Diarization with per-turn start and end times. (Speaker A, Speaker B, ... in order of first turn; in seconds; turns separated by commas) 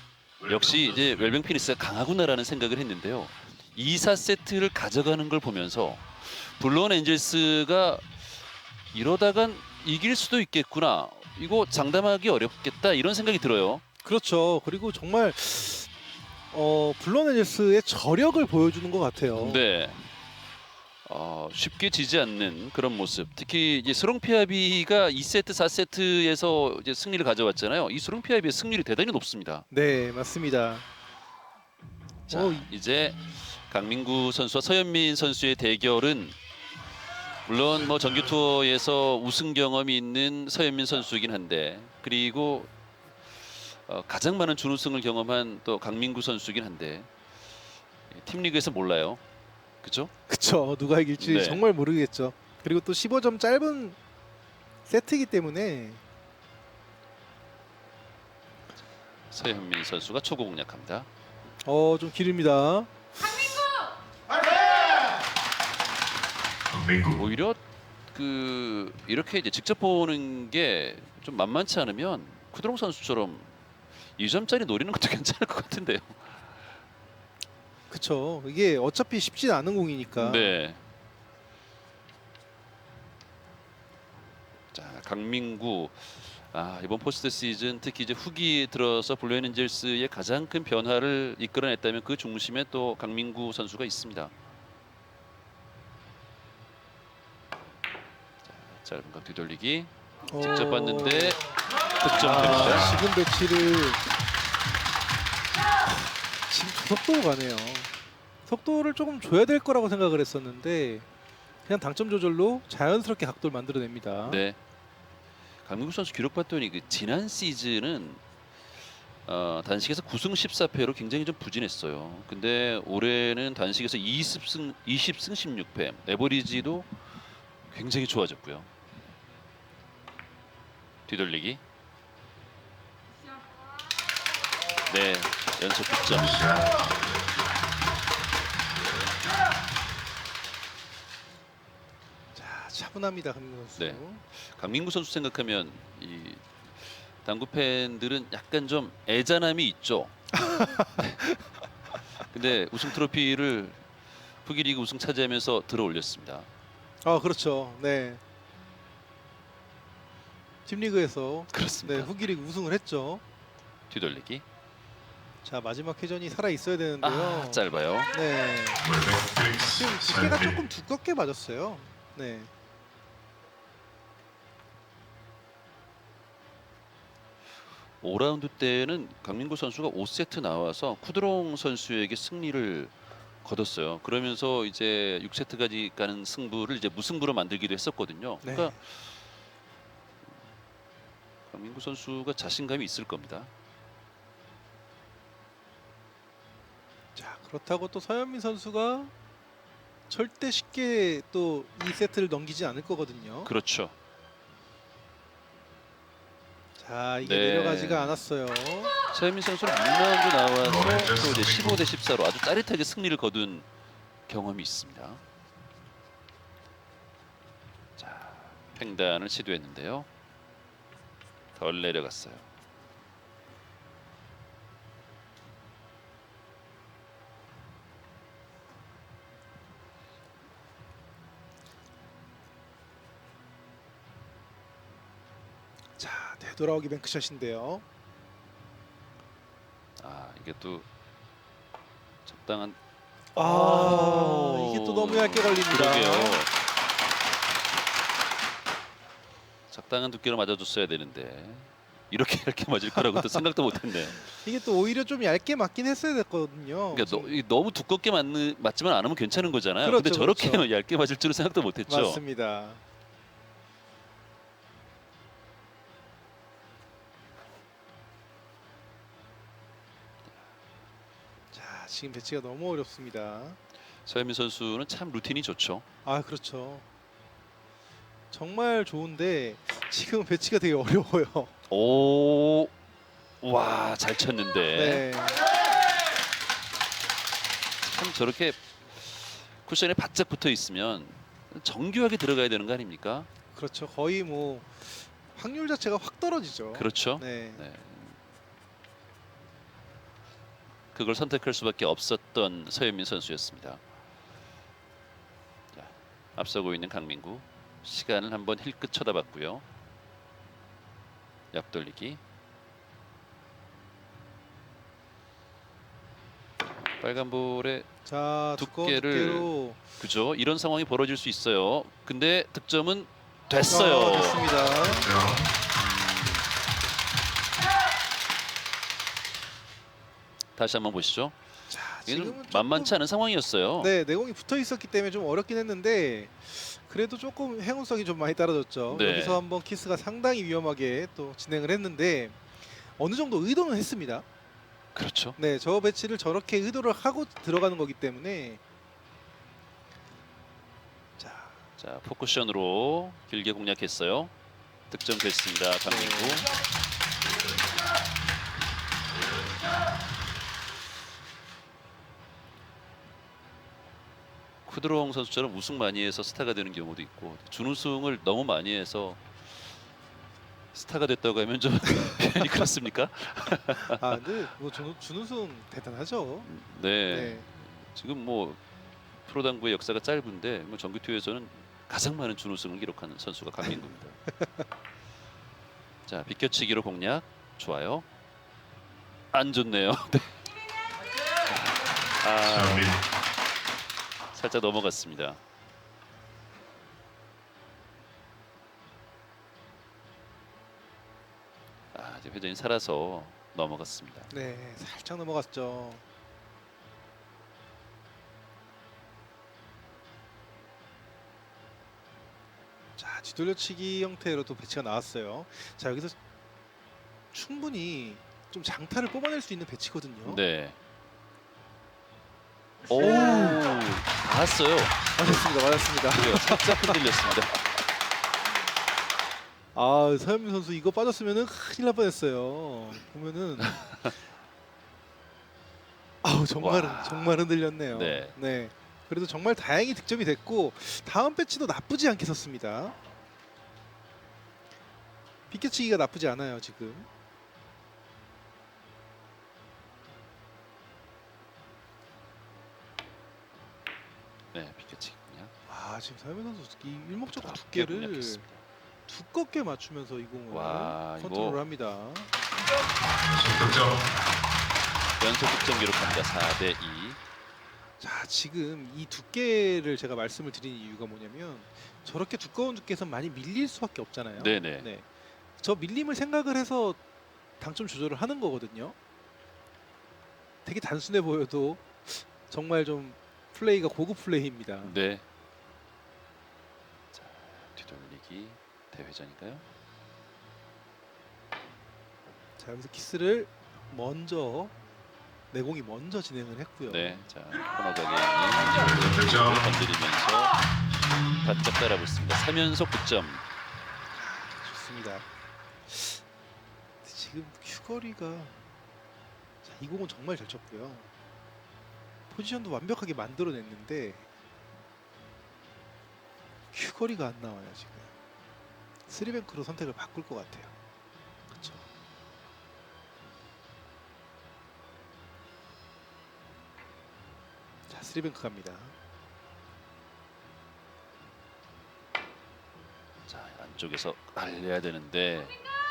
Speaker A: 0.4-1.4, Speaker B: 0.5-8.1, Speaker B: 8.9-13.8, Speaker C: 14.0-15.9, Speaker C: 16.5-19.6, Speaker B: 19.4-20.1, Speaker B: 21.1-29.7, Speaker C: 29.7-30.9, Speaker C: 32.3-32.7, Speaker B: 32.3-36.4, Speaker B: 37.5-42.7, Speaker B: 43.4-47.1, Speaker B: 48.1-49.2, Speaker B: 49.8-50.1, Speaker C: 50.3-54.0, Speaker B: 51.2-51.6, Speaker C: 54.9-56.0, Speaker B: 59.3-61.1, Speaker C: 61.6-63.5, Speaker A: 66.7-67.2, Speaker B: 67.2-76.5, Speaker C: 77.9-80.6, Speaker B: 80.2-80.8, Speaker B: 84.7-94.3, Speaker B: 98.5-101.4, Speaker C: 100.3-101.4, Speaker B: 102.0-102.9, Speaker C: 102.0-104.0, Speaker A: 102.2-103.1, Speaker C: 105.8-107.9, Speaker C: 108.5-111.1, Speaker C: 111.7-114.4, Speaker B: 114.2-114.6, Speaker B: 115.6-118.2, Speaker B: 119.2-128.7, Speaker B: 131.1-131.6, Speaker B: 134.9-136.6, Speaker A: 136.3-136.9, Speaker C: 142.3-144.2, Speaker B: 143.8-150.2, Speaker C: 150.3-151.3, Speaker B: 151.0-151.3, Speaker B: 152.2-153.8, Speaker B: 154.4-156.5, Speaker C: 157.0-158.2, Speaker C: 160.7-163.2, Speaker B: 161.5-162.1, Speaker B: 163.9-164.5, Speaker C: 165.4-168.9, Speaker B: 167.0-168.1, Speaker A: 168.8-170.6, Speaker C: 169.7-172.5, Speaker B: 178.0-189.1, Speaker C: 188.4-188.8, Speaker B: 191.5-193.5, Speaker C: 197.2-199.1, Speaker C: 200.1-203.5, Speaker B: 203.4-203.9, Speaker C: 206.8-209.0, Speaker B: 207.2-208.2, Speaker B: 209.1-213.7, Speaker A: 210.6-211.8, Speaker B: 214.3-215.2, Speaker B: 218.0-220.1, Speaker B: 221.5-222.5, Speaker C: 236.0-237.8, Speaker B: 240.0-240.9, Speaker B: 242.2-242.8, Speaker C: 243.3-246.4, Speaker B: 243.3-246.5, Speaker B: 249.7-254.4, Speaker C: 252.9-253.4, Speaker C: 254.1-257.4, Speaker B: 256.9-262.2, Speaker C: 259.8-260.7, Speaker C: 261.9-262.8, Speaker C: 271.5-273.6, Speaker B: 274.0-275.9, Speaker C: 276.1-276.9, Speaker C: 278.3-281.5, Speaker B: 281.7-282.7, Speaker B: 283.4-285.1, Speaker C: 284.7-285.4, Speaker B: 287.8-293.3, Speaker C: 293.5-297.7, Speaker B: 296.7-298.2, Speaker B: 300.9-303.8, Speaker B: 305.7-309.6, Speaker B: 311.5-312.2, Speaker B: 317.0-317.9, Speaker C: 318.1-319.8, Speaker B: 318.6-324.5, Speaker C: 323.7-325.1, Speaker A: 325.0-325.5, Speaker B: 325.7-326.5, Speaker B: 330.6-331.4, Speaker C: 331.7-332.9, Speaker B: 331.9-333.9, Speaker C: 333.8-344.2, Speaker B: 338.9-339.4, Speaker B: 344.9-345.4, Speaker C: 345.4-348.6, Speaker C: 351.2-351.6, Speaker B: 351.8-354.3, Speaker B: 354.9-356.5, Speaker C: 355.9-356.4, Speaker B: 364.7-369.6, Speaker B: 370.7-374.8, Speaker C: 373.9-376.5, Speaker B: 376.4-378.6, Speaker C: 377.1-377.5, Speaker B: 379.2-384.2, Speaker C: 383.6-384.6, Speaker B: 386.1-388.1, Speaker B: 389.3-390.5, Speaker B: 391.5-392.9, Speaker A: 392.4-393.0, Speaker B: 394.3-395.4, Speaker B: 401.9-404.3, Speaker C: 404.3-406.0, Speaker C: 413.0-416.2, Speaker C: 417.3-420.4, Speaker B: 420.2-420.8, Speaker B: 422.9-425.4, Speaker C: 422.9-423.8, Speaker C: 425.1-427.0, Speaker B: 426.1-427.6, Speaker C: 429.7-433.9, Speaker B: 433.6-434.1, Speaker C: 436.2-443.0, Speaker B: 436.6-438.4, Speaker C: 445.5-447.1, Speaker B: 454.5-455.5, Speaker C: 455.7-458.4, Speaker B: 457.3-458.6, Speaker C: 459.1-462.3, Speaker B: 460.5-461.6, Speaker A: 463.1-464.1, Speaker B: 465.2-467.2, Speaker C: 468.0-477.0, Speaker B: 474.4-474.9, Speaker C: 477.6-479.0, Speaker C: 480.6-485.0, Speaker B: 484.8-485.2, Speaker B: 487.1-489.6, Speaker C: 492.6-494.8, Speaker C: 495.5-497.2, Speaker B: 496.9-500.6, Speaker A: 498.8-499.7, Speaker B: 501.4-503.4, Speaker C: 504.2-505.3, Speaker C: 505.9-506.2, Speaker C: 507.0-508.6, Speaker C: 509.6-511.1, Speaker C: 512.3-514.2, Speaker C: 516.7-518.1, Speaker C: 519.1-520.7, Speaker C: 521.5-521.9, Speaker C: 527.9-528.9, Speaker B: 533.3-535.6